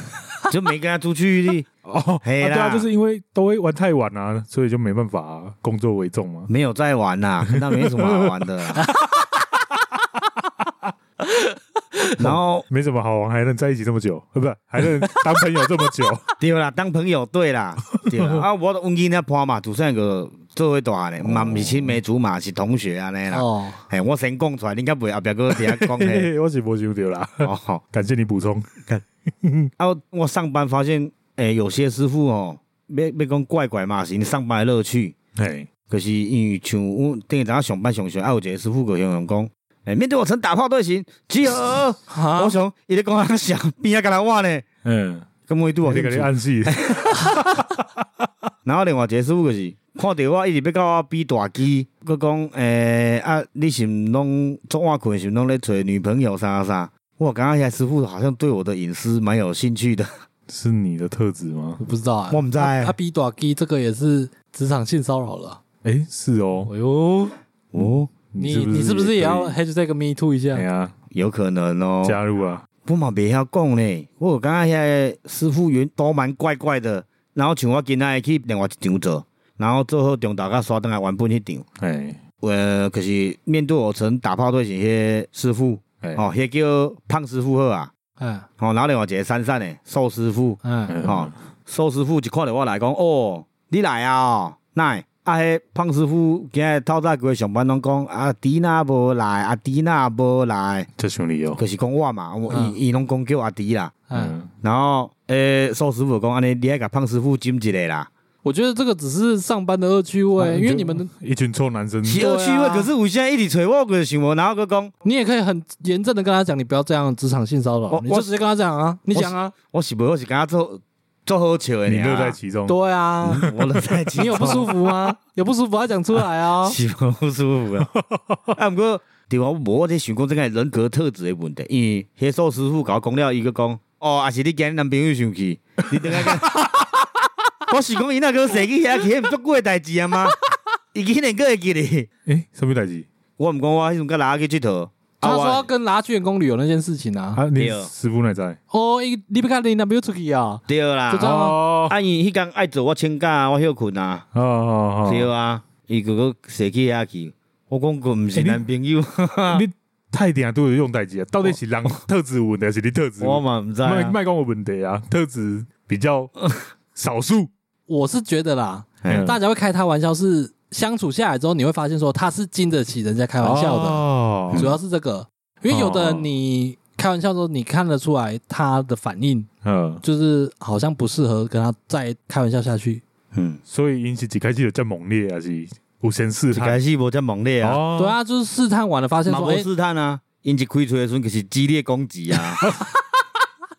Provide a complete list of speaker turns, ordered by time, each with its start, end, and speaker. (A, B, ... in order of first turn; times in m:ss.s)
0:00.5-0:01.7 A
0:01.8-0:06.5 B
0:02.2-0:02.9 A
0:06.5-0:08.9 A
0:07.5-0:08.3 B
0:12.2-0:12.6 A
0:12.2-0:16.3 B
0:16.4-0:26.3 A
0:18.0-0:18.4 B
0:21.2-0:22.0 B
0:23.3-0:23.8 C
0:25.5-0:29.7 B
0:27.4-0:27.8 A
0:29.8-0:35.2 A
0:35.4-0:35.7 B
0:35.9-0:44.7 A
0:42.1-0:42.6 C
0:44.8-0:45.3 B
0:45.5-0:47.4 A
0:45.9-0:47.8 B
0:48.6-1:00.1 A
1:00.5-1:01.8 B
1:01.8-1:05.6 C
1:02.3-1:03.0 A
1:05.8-1:06.7 B
1:06.7-1:07.4 C
1:07.7-1:08.1 A
1:07.8-1:09.6 B
1:08.4-1:10.6 C
1:10.5-1:10.9 B
1:11.1-1:12.2 A
1:12.0-1:12.6 B
1:12.8-1:21.6 A
1:21.8-1:22.2 B
1:22.4-1:27.9 A
1:28.2-1:28.5 C
1:28.6-1:40.9 A
1:30.6-1:31.0 C
1:30.9-1:31.4 B
1:41.0-1:41.6 B
1:41.6-1:44.0 A
1:42.5-1:42.8 C
1:44.1-1:44.4 C
1:44.1-1:44.5 B
1:44.6-1:48.1 A
1:48.4-1:51.1 C
1:50.4-1:52.2 B
1:52.0-1:54.9 A
1:52.2-1:52.9 C
1:55.0-1:59.5 C
1:57.9-1:58.3 A
1:59.2-2:02.4 A
2:01.9-2:02.8 B
2:02.7-2:03.5 C
2:03.3-2:04.7 A
2:03.4-2:04.6 B
2:04.2-2:06.8 C
2:06.6-2:07.9 A
2:08.5-2:17.0 A
2:17.7-2:20.4 A
2:20.9-2:22.1 A
2:22.3-2:23.1 B
2:23.4-2:25.7 A
2:25.2-2:27.4 C
2:27.4-2:28.6 B
2:27.6-2:27.9 A
2:28.7-2:31.6 C
2:30.7-2:34.2 A
2:31.2-2:32.0 B
2:34.3-2:35.3 B
2:35.0-2:39.6 A
2:38.4-2:38.6 B
2:39.5-2:46.4 B
2:43.2-2:44.2 A
2:47.0-2:47.5 B
2:47.9-2:54.0 C
2:49.0-2:49.3 A
2:49.1-2:49.4 B
2:53.4-2:54.7 B
2:54.5-2:54.8 A
2:54.6-2:59.5 C
2:55.7-2:56.3 B
2:59.6-3:00.0 B
3:00.0-3:03.0 C
3:03.3-3:03.6 A
3:03.7-3:06.8 B
3:06.5-3:07.8 A
3:07.6-3:08.2 B
3:08.0-3:09.7 C
3:09.3-3:12.6 A